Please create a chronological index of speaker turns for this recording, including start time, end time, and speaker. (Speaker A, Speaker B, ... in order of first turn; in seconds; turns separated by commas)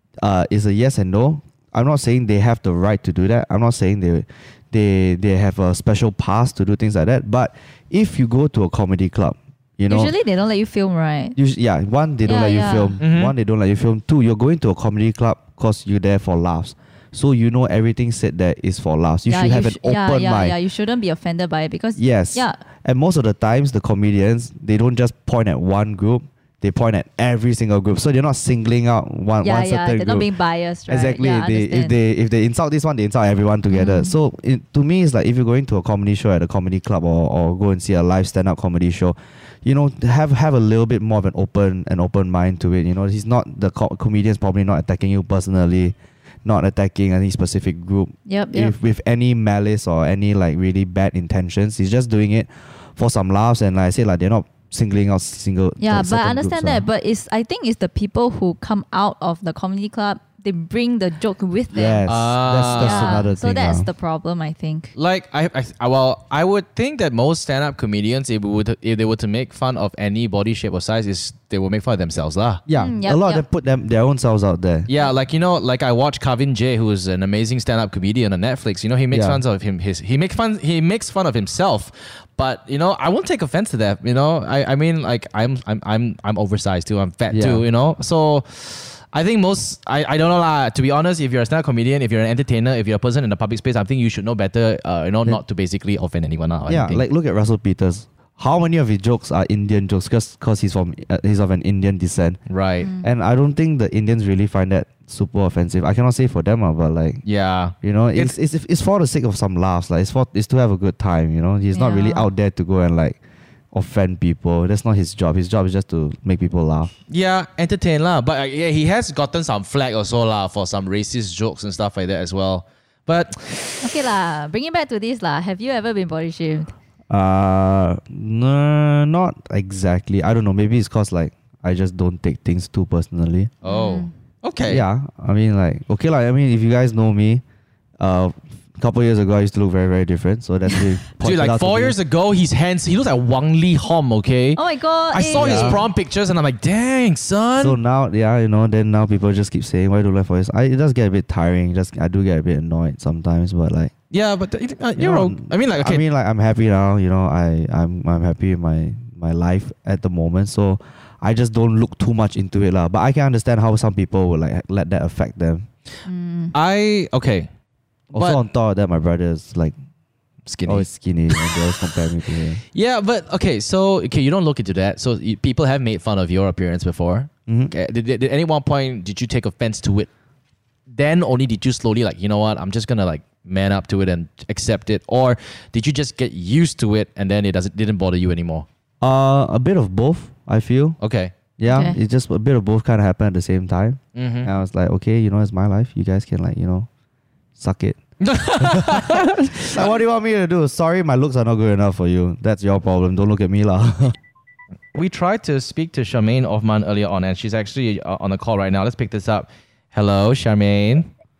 Speaker A: 0.2-10.1, Speaker B: 9.9-11.3, Speaker A: 11.3-20.5, Speaker B: 12.2-13.0, Speaker C: 13.0-13.3, Speaker B: 19.3-22.6, Speaker A: 21.9-30.3, Speaker B: 29.4-31.9, Speaker A: 30.9-56.9, Speaker B: 33.7-34.1, Speaker B: 48.3-48.7, Speaker B: 55.8-62.0, Speaker A: 61.7-63.9, Speaker C: 62.1-63.1, Speaker B: 62.7-64.9, Speaker C: 65.0-72.6, Speaker A: 72.7-74.9, Speaker B: 72.7-73.4, Speaker C: 74.9-97.0, Speaker A: 79.1-79.4, Speaker A: 87.3-87.6, Speaker A: 96.7-102.4, Speaker C: 102.5-102.9, Speaker B: 102.8-103.1, Speaker A: 103.0-107.2, Speaker C: 107.2-108.3, Speaker A: 107.8-113.2, Speaker B: 111.7-112.3, Speaker A: 113.7-116.9, Speaker C: 117.1-123.9, Speaker B: 123.8-126.7, Speaker A: 127.1-133.5, Speaker C: 133.6-134.8, Speaker B: 133.6-134.1, Speaker A: 134.7-137.4, Speaker A: 138.0-141.9, Speaker C: 141.2-144.6, Speaker B: 144.6-145.8, Speaker C: 145.1-147.8, Speaker A: 145.3-145.8, Speaker A: 147.6-153.9, Speaker C: 154.1-156.0, Speaker A: 155.0-165.7, Speaker B: 166.1-166.5, Speaker C: 166.5-167.5, Speaker A: 168.1-169.7, Speaker C: 168.1-168.4, Speaker C: 170.4-171.6, Speaker A: 170.7-172.6, Speaker C: 172.7-180.1, Speaker A: 177.5-177.7, Speaker C: 180.9-188.7, Speaker A: 189.0-191.0, Speaker C: 191.0-191.3, Speaker A: 191.6-196.9, Speaker B: 191.7-192.0, Speaker C: 194.1-194.5, Speaker A: 197.6-198.0, Speaker C: 198.2-199.9, Speaker A: 198.6-204.2, Speaker C: 204.9-211.1